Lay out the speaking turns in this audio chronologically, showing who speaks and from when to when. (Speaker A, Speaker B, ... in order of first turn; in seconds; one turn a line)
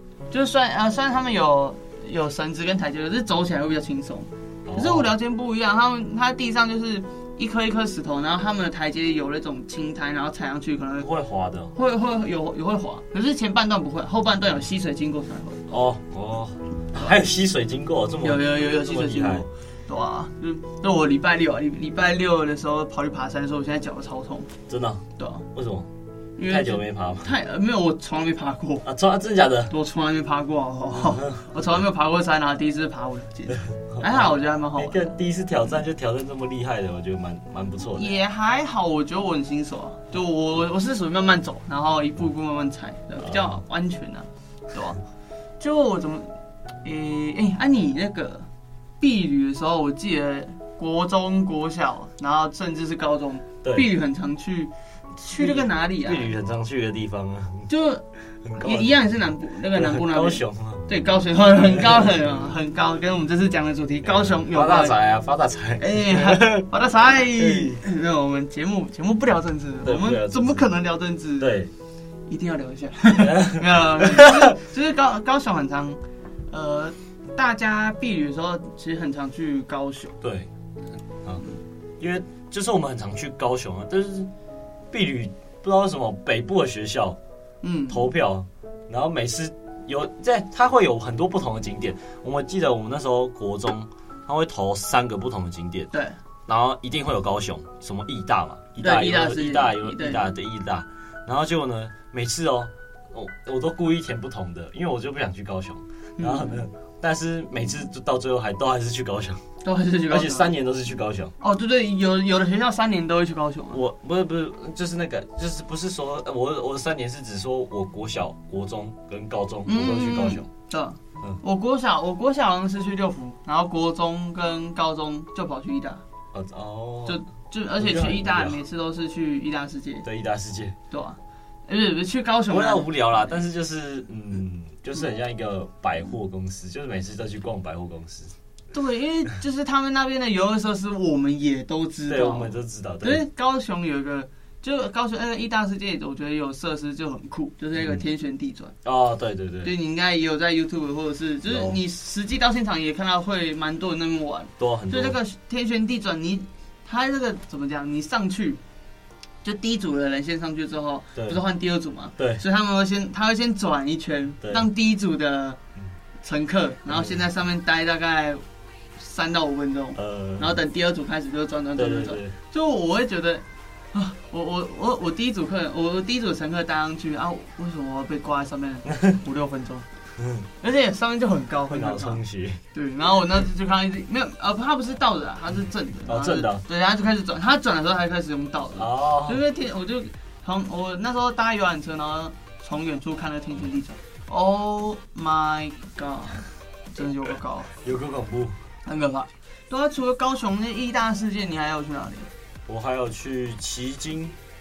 Speaker A: 0.3-11.1
Speaker B: 4.7-5.1
Speaker B: 11.0-11.7
Speaker A: 11.7-15.6
Speaker B: 15.7-19.5
Speaker A: 18.2-24.5
Speaker B: 24.7-25.9
Speaker A: 25.2-25.4
Speaker A: 26.4-28.9
Speaker B: 26.5-27.3
Speaker B: 28.8-29.7
Speaker A: 29.7-35.2
Speaker B: 31.1-31.3
Speaker B: 33.9-38.1
Speaker A: 37.9-45.0
Speaker B: 43.2-43.6
Speaker A: 45.6-46.3
Speaker A: 46.8-48.5
Speaker A: 49.0-56.3
Speaker B: 55.3-57.7
Speaker A: 57.7-58.0
Speaker B: 58.4-59.0
Speaker A: 58.6-65.0
Speaker B: 59.7-60.9
Speaker B: 61.6-62.5
Speaker B: 64.1-66.7
Speaker A: 65.8-71.5
Speaker B: 67.3-67.8
Speaker B: 69.8-70.7
Speaker B: 71.4-71.7
Speaker A: 72.3-80.2
Speaker B: 73.2-74.5
Speaker B: 80.2-80.5
Speaker B: 82.0-84.3
Speaker B: 84.9-87.2
Speaker A: 87.6-88.1
Speaker B: 87.9-95.9
Speaker A: 95.9-96.2
Speaker B: 96.5-109.4
Speaker A: 98.8-100.2
Speaker A: 106.2-106.6
Speaker A: 109.6-110.5
Speaker B: 110.1-111.3
Speaker A: 111.4-113.8
Speaker B: 113.7-120.5
Speaker A: 119.7-126.0
Speaker B: 126.3-127.2
Speaker A: 127.0-130.1
Speaker B: 127.8-128.6
Speaker B: 130.0-130.8
Speaker A: 130.9-133.0
Speaker B: 132.5-138.3
Speaker A: 138.7-148.7
Speaker B: 142.1-143.2
Speaker B: 148.8-149.7
Speaker A: 149.6-158.6
Speaker B: 151.4-151.8
Speaker B: 154.6-155.2
Speaker A: 159.4-165.6
Speaker B: 162.2-162.4
Speaker B: 164.4-164.7
Speaker A: 166.2-168.4
Speaker B: 166.9-167.2
Speaker A: 169.0-179.8
Speaker B: 169.9-170.6
Speaker B: 171.8-172.3
Speaker B: 180.2-180.5
Speaker A: 180.6-182.2
Speaker B: 181.7-182.6
Speaker A: 182.7-197.7
Speaker B: 186.1-186.6
Speaker B: 188.8-189.4
Speaker B: 197.7-198.6
Speaker A: 198.8-202.3
Speaker B: 202.7-204.3